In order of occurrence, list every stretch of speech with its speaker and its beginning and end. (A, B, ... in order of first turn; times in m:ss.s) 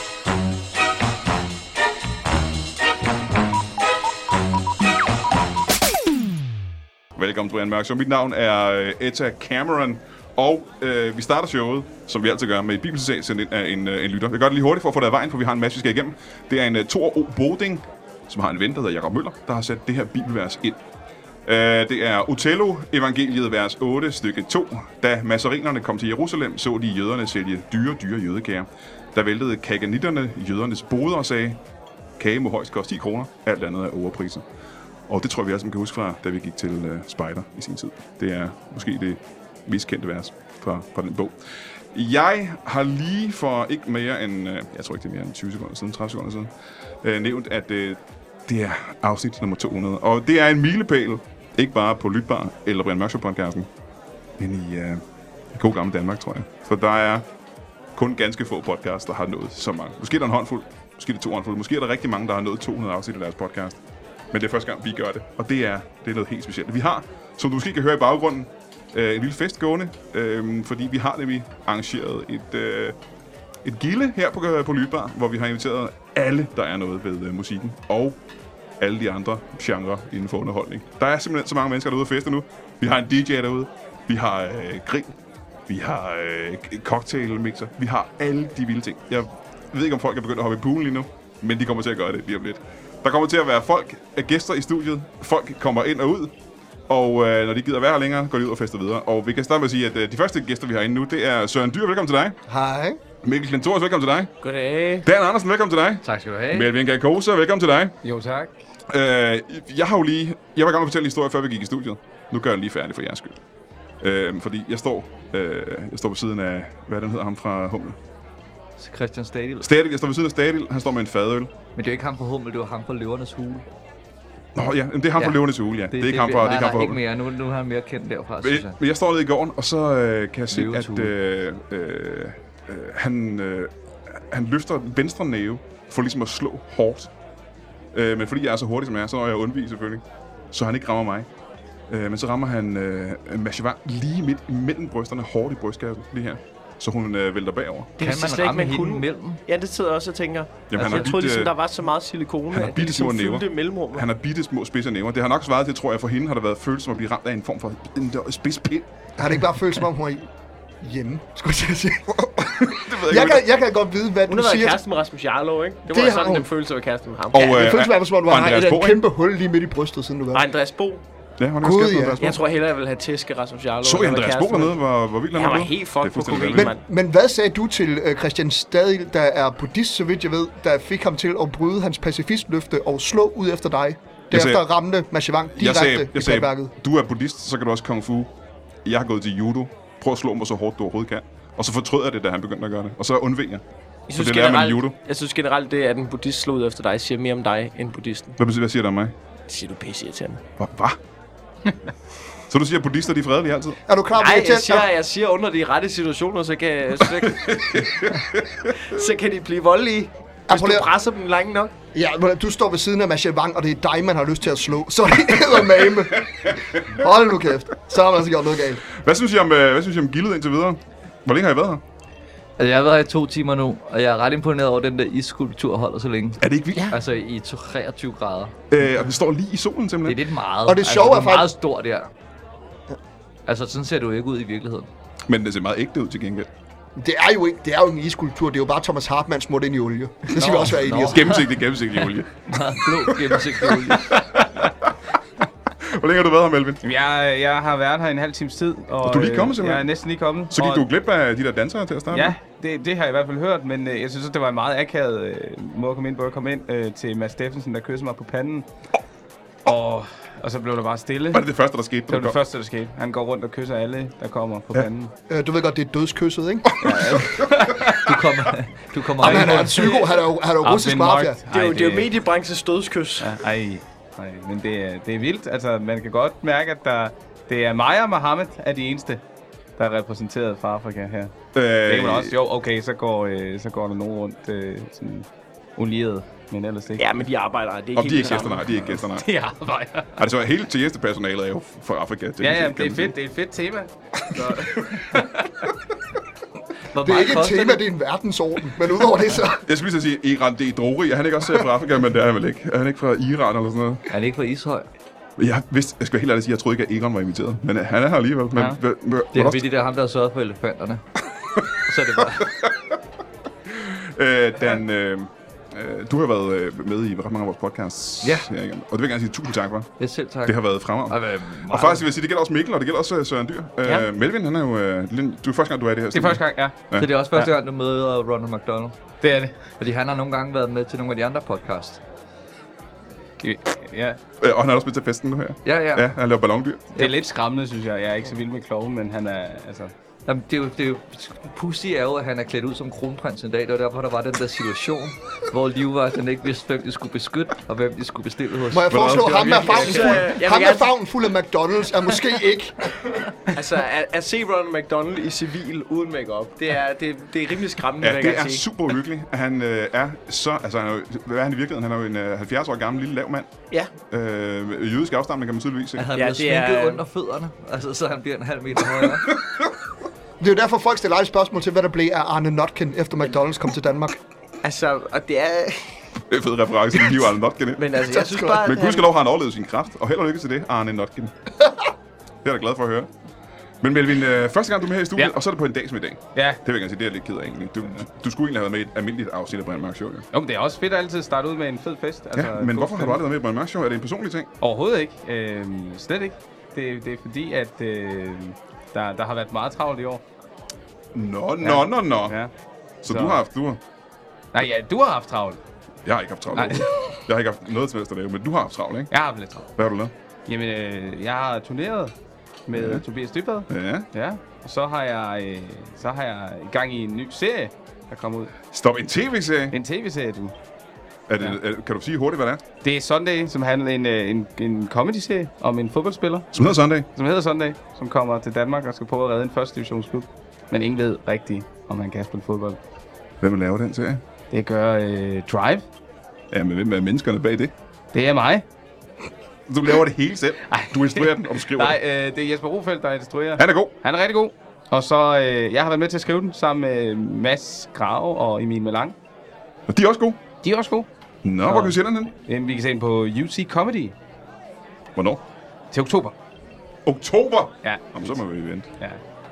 0:07.2-0:20.8 A
0:21.4-0:31.6 A
0:32.2-0:34.4 A
0:35.1-0:41.3 A
0:41.9-0:46.5 A
0:47.0-0:53.7 A
0:54.4-0:55.0 A
0:55.5-0:57.2 A
0:58.0-1:03.8 A
1:04.3-1:12.9 A
1:13.6-1:18.2 A
1:18.8-1:25.1 A
1:25.7-1:36.3 A
1:36.9-1:42.4 A
1:42.5-1:43.0 B
1:43.2-1:44.3 A
1:44.4-1:45.1 C
1:45.0-1:47.9 A
1:46.0-1:46.7 D
1:48.0-1:48.5 E
1:48.9-1:53.4 A
1:54.0-1:58.0 A
1:58.8-1:59.7 D
1:59.6-2:01.5 A
2:01.8-2:03.6 D
2:04.6-2:07.0 A
2:05.2-2:08.7 D
2:08.4-2:13.7 A
2:10.5-2:11.1 D
2:14.3-2:17.1 A
2:17.9-2:21.3 A
2:21.9-2:27.9 A
2:28.0-2:29.4 D
2:28.0-2:34.0 C
2:30.7-2:31.5 A
2:32.5-2:38.9 A
2:39.2-2:40.3 B
2:40.8-2:44.8 B
2:42.2-2:43.4 A
2:44.3-2:47.8 C
2:45.9-2:46.5 B
2:47.3-2:49.0 A
2:47.4-2:50.5 B
2:50.3-2:51.0 C
2:51.4-2:52.4 A
2:51.6-2:52.2 B
2:52.2-2:54.8 C
2:53.8-2:56.7 A
2:55.3-2:56.8 C
2:56.5-3:06.7 B
3:04.3-3:04.6 A
3:05.5-3:08.3 A
3:08.8-3:13.6 A
3:14.1-3:18.4 C
3:14.1-3:14.9 A
3:18.4-3:19.1 A
3:19.5-3:20.4 C
3:20.6-3:21.0 A
3:22.5-3:23.8 A
3:23.9-3:24.9 B
3:24.2-3:28.0 C
3:27.2-3:28.7 A
3:28.8-3:31.7 C
3:30.5-3:30.9 B
3:31.9-3:38.8 B
3:38.9-3:41.8 A
3:42.6-3:48.5 D
3:46.4-3:46.9 A
3:48.7-3:50.2 A
3:50.0-3:52.1 D
3:50.6-3:51.5 B
3:53.5-3:54.9 D
3:55.3-3:56.5 A
3:57.0-4:01.4 B
4:00.3-4:01.4 D
4:01.1-4:02.3 A
4:02.5-4:04.2 D
4:02.9-4:04.9 A
4:05.8-4:06.8 A
4:06.8-4:10.9 E
4:09.0-4:09.9 A
4:10.5-4:12.4 A
4:12.1-4:18.7 E
4:19.6-4:21.4 E
4:21.3-4:22.4 A
4:22.1-4:25.1 E
4:25.3-4:26.9 B
4:26.8-4:27.4 A
4:26.8-4:28.0 E
4:28.0-4:29.9 D
4:29.2-4:31.4 B
4:29.3-4:30.2 C
4:29.5-4:29.8 E
4:30.6-4:32.1 E
4:31.5-4:33.4 C
4:33.2-4:39.2 E
4:39.8-4:47.1 E
4:41.5-4:42.3 A
4:47.0-4:49.0 C
4:47.9-4:49.2 A
4:49.1-4:50.2 E
4:50.2-4:53.1 A
4:52.4-4:55.7 E
4:54.4-4:55.0 A
4:56.9-4:57.8 D
4:57.0-4:59.6 B
4:59.6-5:04.0 A
5:04.1-5:04.9 D
5:05.4-5:09.6 A
5:09.3-5:11.0 D
5:11.6-5:12.5 D
5:13.7-5:19.9 A
5:18.2-5:18.5 D
5:20.0-5:22.0 D
5:20.4-5:27.1 A
5:26.1-5:26.8 E
5:27.0-5:28.9 D
5:29.2-5:29.6 E
5:29.8-5:32.0 D
5:33.4-5:34.2 E
5:34.4-5:36.9 A
5:35.6-5:36.1 D
5:36.9-5:37.2 D
5:37.0-5:39.9 E
5:40.3-5:49.8 D
5:48.7-5:53.1 B
5:48.9-5:50.2 A
5:49.4-5:50.9 C
5:53.5-5:58.6 C
5:58.0-6:03.5 A
6:04.1-6:06.0 A
6:06.0-6:09.3 D
6:06.2-6:07.0 C
6:10.4-6:14.2 B
6:14.6-6:15.9 C
6:16.3-6:17.8 A
6:17.8-6:19.1 C
6:18.0-6:18.8 B
6:18.6-6:21.3 A
6:22.4-6:23.1 A
6:23.8-6:30.2 A
6:26.3-6:26.6 E
6:30.3-6:33.2 E
6:32.3-6:34.5 A
6:34.6-6:40.2 E
6:41.1-6:42.3 A
6:41.6-6:42.5 E
6:43.0-6:43.8 A
6:43.0-6:43.4 E
6:44.5-6:45.6 E
6:46.0-6:49.1 A
6:46.5-6:47.1 E
6:49.1-6:49.7 E
6:49.8-6:50.1 A
6:50.5-6:52.1 E
6:52.7-6:58.5 E
6:52.7-6:53.0 A
6:53.7-6:54.1 A
6:58.7-6:59.7 A
6:59.7-7:00.5 E
7:01.3-7:02.6 A
7:02.8-7:12.8 E
7:06.5-7:07.1 A
7:13.4-7:14.2 A
7:14.5-7:15.8 E
7:16.5-7:17.7 A
7:18.1-7:18.6 E
7:19.7-7:22.0 A
7:20.7-7:29.2 E
7:23.6-7:23.9 A
7:29.9-7:30.4 A
7:30.6-7:31.1 E
7:31.4-7:32.3 A
7:31.6-7:34.1 E
7:35.2-7:35.4 A
7:35.9-7:36.3 E
7:37.0-7:38.9 A
7:37.8-7:38.4 E